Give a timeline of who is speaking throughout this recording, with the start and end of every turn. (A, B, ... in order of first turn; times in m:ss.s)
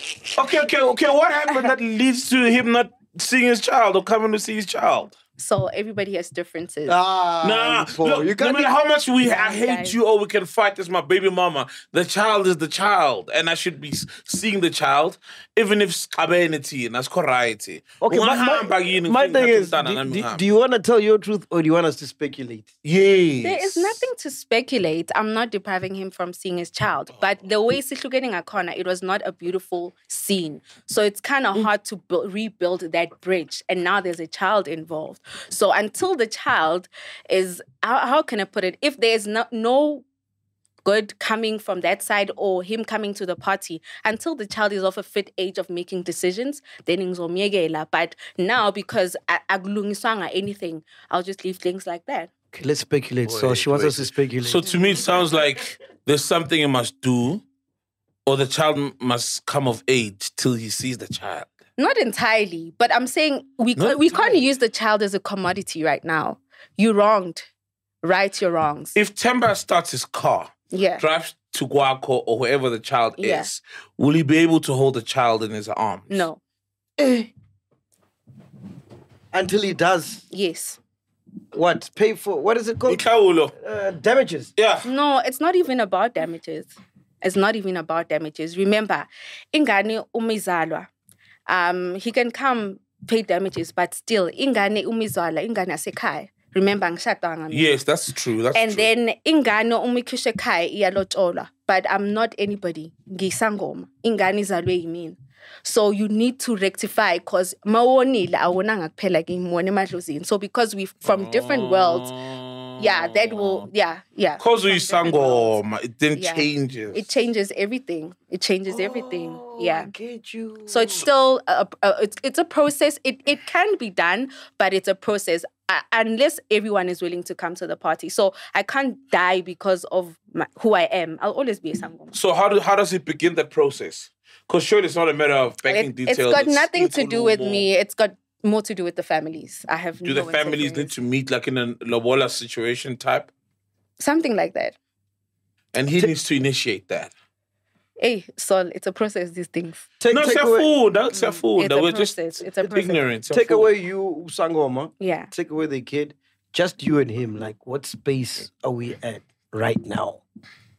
0:00.3-0:05.1 A
0:05.4-0:07.0 B
0:06.9-0:08.7 C
0:07.4-0:20.4 A
0:09.2-0:10.0 B
0:18.0-0:24.0 C
0:23.4-0:40.0 B
0:40.8-0:52.3 B
0:52.5-0:54.6 C
0:53.3-0:57.4 A
0:54.6-0:55.0 B
0:58.3-1:01.5 A
1:01.8-1:07.5 B
1:03.8-1:04.4 A
1:08.0-1:09.0 B
1:09.0-1:16.3 A
1:10.7-1:11.0 B
1:13.2-1:13.5 B
1:16.1-1:16.4 B
1:17.0-1:17.3 C
1:19.3-1:20.2 C
1:20.3-1:20.8 B
1:21.5-1:23.0 C
1:22.9-1:23.5 A
1:23.6-1:24.5 C
1:24.6-1:24.9 A
1:24.8-1:30.9 B
1:31.5-1:37.8 B
1:37.5-1:38.9 A
1:38.6-1:52.1 B
1:51.0-1:53.7 A
1:52.8-1:55.6 B
1:54.4-1:57.1 A
1:56.2-1:59.9 B
1:58.7-2:01.1 C
2:00.7-2:12.2 B
2:12.1-2:17.7 A
2:15.6-2:20.9 B
2:20.0-2:23.3 A
2:24.0-2:24.8 B
2:25.7-2:27.1 A
2:28.0-2:29.9 B
2:30.0-2:30.7 C
2:30.1-2:33.7 A
2:31.1-2:33.0 B
2:32.6-2:40.2 C
2:35.0-2:35.3 B